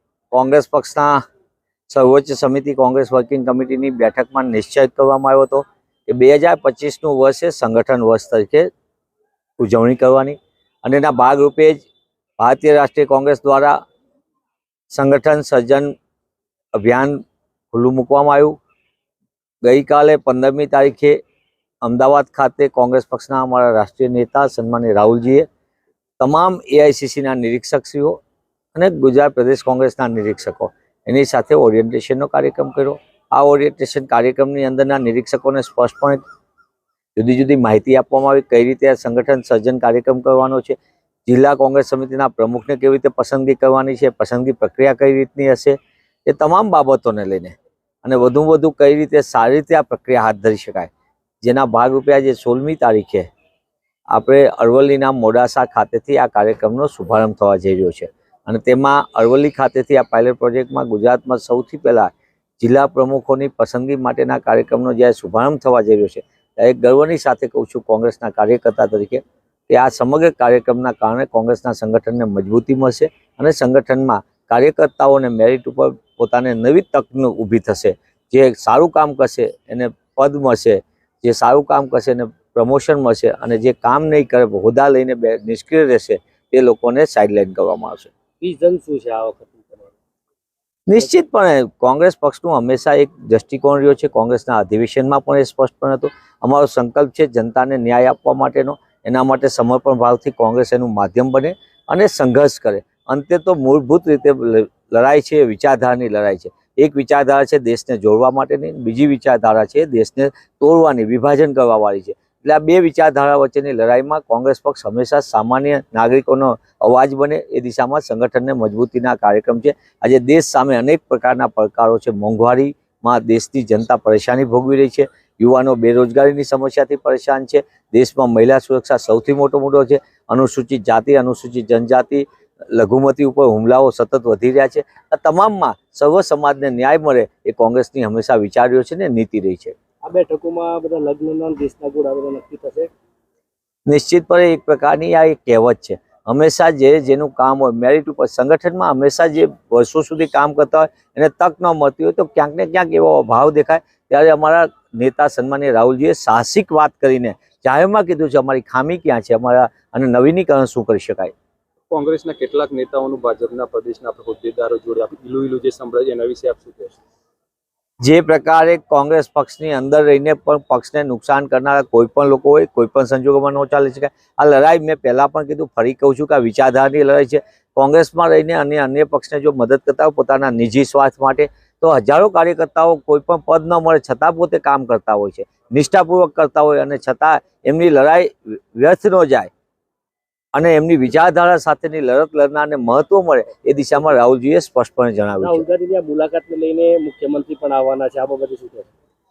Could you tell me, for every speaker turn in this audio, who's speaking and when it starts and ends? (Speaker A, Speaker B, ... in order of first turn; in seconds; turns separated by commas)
Speaker A: 0.3-1.2, Speaker A: 1.9-8.7, Speaker A: 9.6-11.8, Speaker A: 12.4-13.8, Speaker A: 14.9-15.9, Speaker A: 16.8-17.2, Speaker A: 17.7-18.6, Speaker A: 19.6-21.2, Speaker A: 21.8-25.5, Speaker A: 26.2-28.2, Speaker A: 28.7-36.2, Speaker A: 37.1-50.9, Speaker A: 51.4-53.3, Speaker A: 54.1-88.1, Speaker B: 88.4-89.9, Speaker A: 90.9-139.7, Speaker B: 140.0-142.9, Speaker A: 143.9-161.3, Speaker C: 161.9-167.0, Speaker A: 168.0-189.5, Speaker A: 190.5-195.6, Speaker B: 195.4-198.9